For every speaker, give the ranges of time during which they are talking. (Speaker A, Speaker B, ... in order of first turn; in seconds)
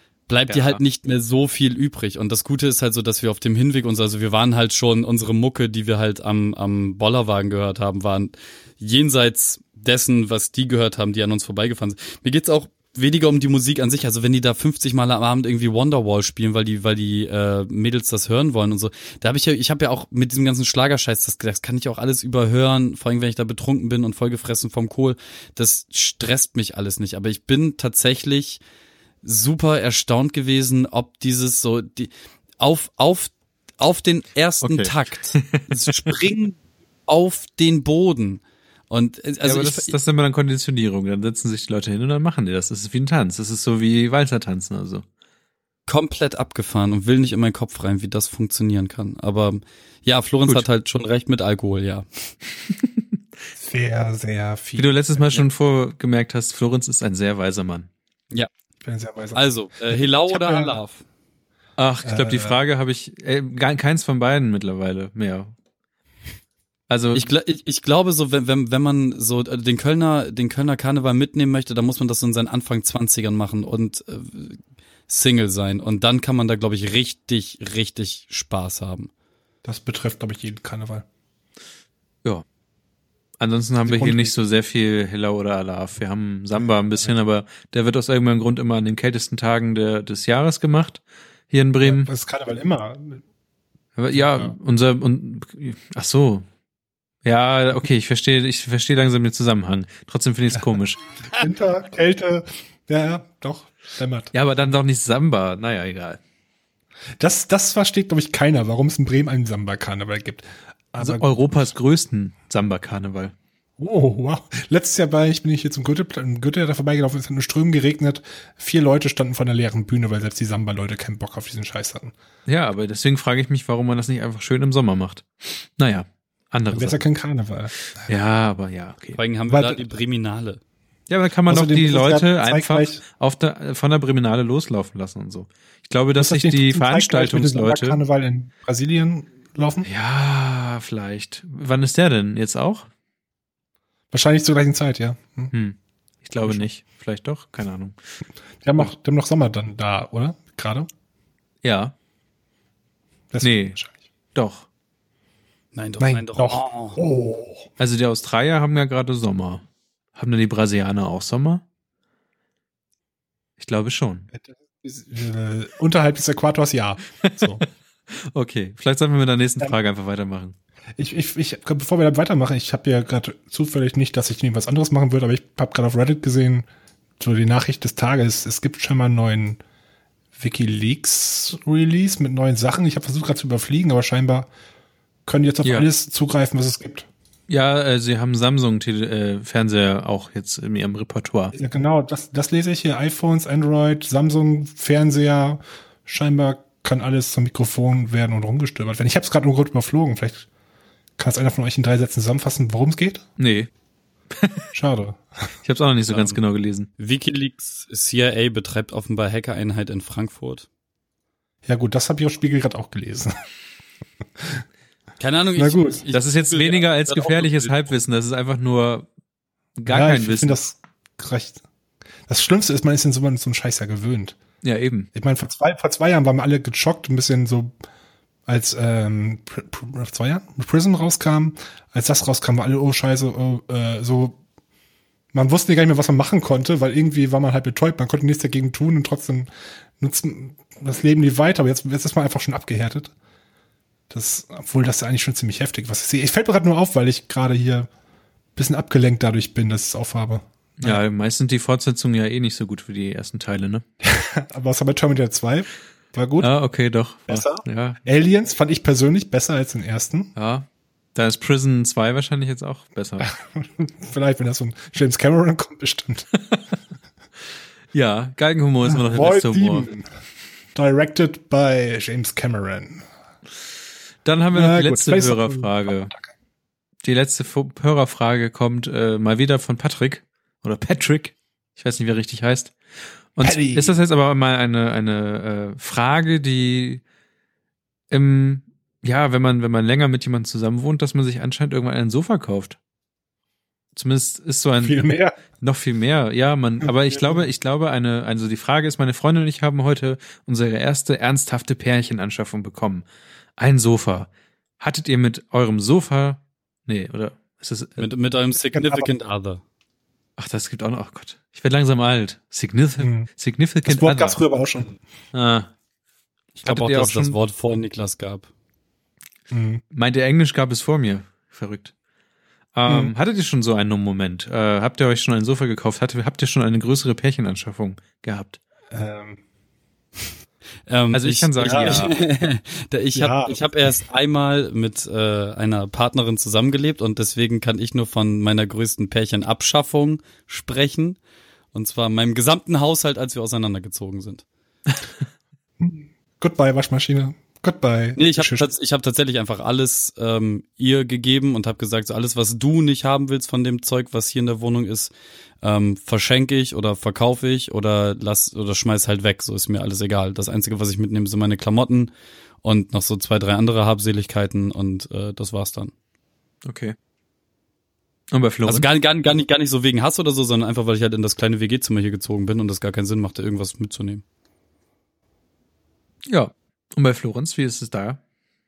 Speaker A: 0.3-28.6, 29.2-40.0, 45.9-52.0, 59.3-61.0, 67.1-79.1, 129.1-130.6, 155.7-157.0, 206.1-206.4, 207.0-210.7, 215.2-217.9, 308.0-309.6, 316.6-318.5, 330.9-341.2, 341.7-344.4, 348.2-362.1, 362.6-365.9, 368.6-374.2
Speaker B: 0.5-0.8, 34.6-36.1, 39.4-45.0, 54.8-57.9, 61.8-65.5, 66.9-67.3, 83.4-92.1, 94.0-96.5, 97.2-101.0, 104.3-106.2, 111.0-113.3, 122.5-127.0, 128.1-129.2, 131.1-138.0, 139.8-142.9, 145.5-147.9, 151.6-151.9, 153.4-153.8, 154.3-154.7, 157.8-159.6, 160.2-161.6, 163.6-164.3, 167.2-170.6, 187.5-191.5, 203.4-203.7, 204.3-204.7, 205.6-206.9, 216.1-219.1, 219.8-220.6, 224.6-225.1, 250.8-253.8, 256.4-258.0, 260.4-263.3, 267.9-269.9, 274.2-276.1, 277.0-282.8, 283.3-287.0, 288.1-292.8, 293.9-295.1, 295.6-303.1, 303.6-304.3, 304.8-308.1, 310.4-314.4, 315.3-315.7, 316.6-317.4, 319.9-321.9, 322.7-328.6, 331.1-332.1, 366.6-366.9, 368.3-368.9, 376.3-378.2
Speaker C: 53.6-54.9, 58.8-60.7, 62.0-62.6, 79.6-81.0, 83.8-84.3, 86.6-87.1, 91.8-93.2, 94.1-94.5, 101.3-104.3, 107.2-111.6, 113.8-122.1, 126.7-127.7, 129.5-129.8, 131.5-133.0, 136.2-139.9, 144.1-145.5, 148.6-150.9, 153.3-154.0, 156.0-157.7, 164.3-167.6, 171.0-176.7, 177.2-179.6, 180.4-184.5, 185.3-187.1, 191.5-200.5, 201.2-203.2, 204.7-205.5, 211.7-213.4, 214.4-214.6, 215.6-216.0, 219.9-221.6, 222.3-224.4, 225.1-227.8, 228.5-234.4, 235.3-243.1, 244.1-247.9, 248.6-251.0, 254.0-256.5, 257.3-260.3, 263.2-266.3, 268.9-270.1, 270.7-273.1, 274.5-276.3, 283.4-283.9, 294.8-295.4, 296.8-297.4, 308.7-309.1, 313.0-313.3, 313.8-314.9, 319.5-319.8, 322.9-323.1, 328.9-329.4, 331.6-332.1, 333.1-333.6, 345.8-348.7